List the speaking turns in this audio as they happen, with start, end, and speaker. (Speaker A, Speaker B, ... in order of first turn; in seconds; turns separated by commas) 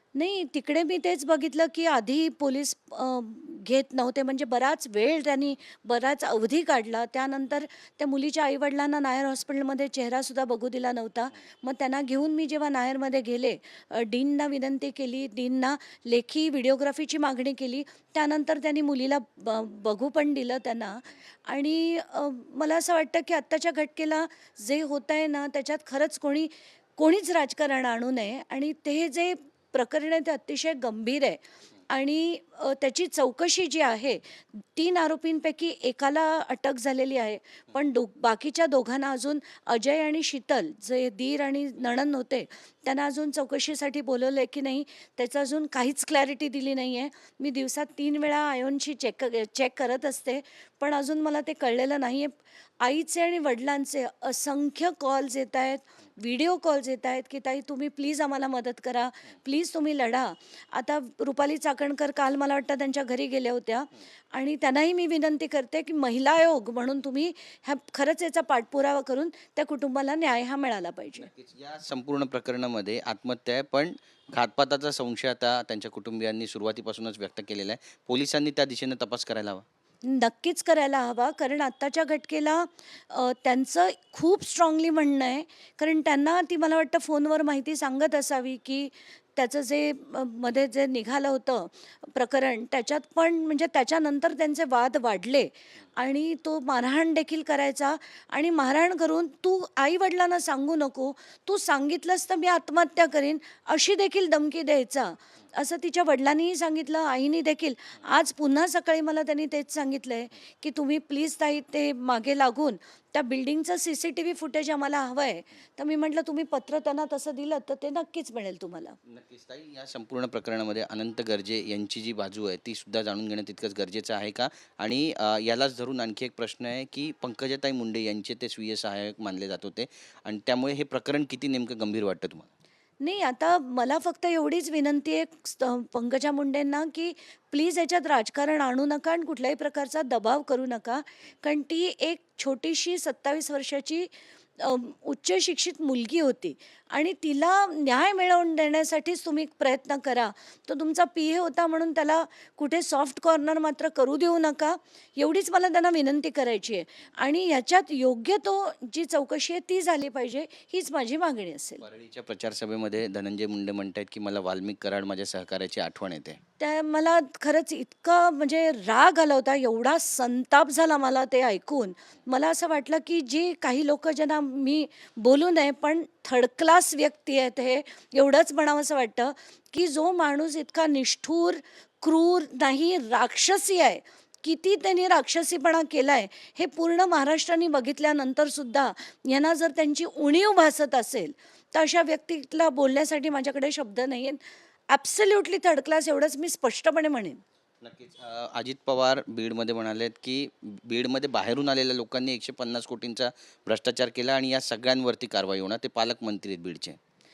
Speaker A: 0.1-71.3, Speaker B: 71.2-79.7, Speaker A: 80.0-119.0, Speaker B: 119.1-132.5, Speaker A: 133.0-161.8, Speaker B: 161.8-166.4, Speaker A: 166.6-197.4, Speaker B: 197.8-207.0